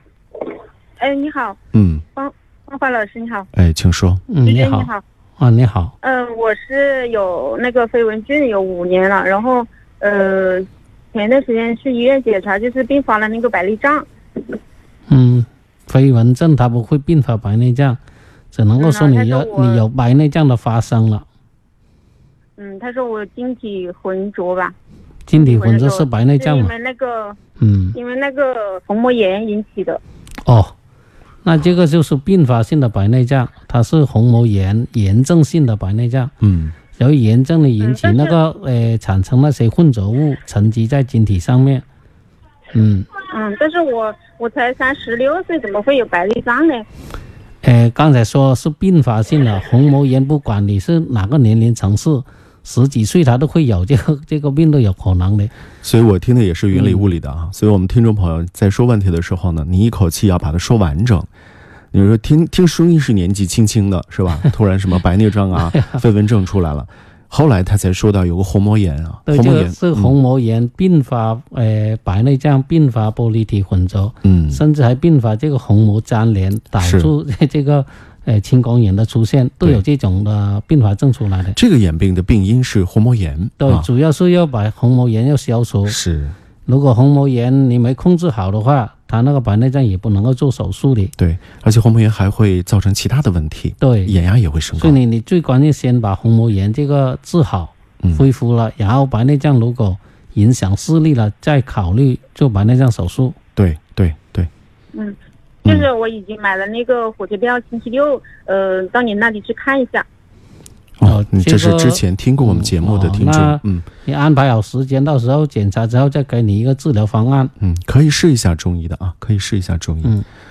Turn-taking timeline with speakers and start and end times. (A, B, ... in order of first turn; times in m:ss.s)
0:01.0-0:01.6 A
0:01.7-0:02.0 B
0:02.2-0:03.5 A
0:03.5-0:04.2 B
0:04.3-0:05.9 C
0:04.4-0:05.0 A
0:06.0-0:14.1 A
0:15.1-0:18.0 C
0:18.5-0:21.3 C
0:18.8-0:19.8 A
0:22.6-0:24.8 A
0:25.3-0:26.7 C
0:25.3-0:27.4 A
0:27.6-0:28.0 C
0:28.0-0:30.0 A
0:30.5-0:30.7 C
0:31.4-0:36.3 C
0:36.4-0:36.8 B
0:37.0-0:41.8 C
0:37.8-0:38.4 A
0:42.7-0:43.1 C
0:43.2-0:46.9 A
0:47.6-0:55.5 C
0:55.8-1:01.3 B
0:56.7-0:57.1 C
1:01.9-1:10.2 B
1:05.6-1:06.0 C
1:09.3-1:21.6 C
1:14.2-1:14.6 B
1:16.8-1:17.1 B
1:21.6-1:23.9 B
1:23.6-1:26.0 C
1:25.9-1:26.4 B
1:26.7-1:31.1 C
1:31.2-1:35.0 B
1:33.8-1:34.2 C
1:34.8-1:43.4 C
1:43.6-1:44.5 B
1:44.9-1:50.1 A
1:51.0-1:53.9 B
1:51.0-1:57.5 C
1:57.6-2:00.2 B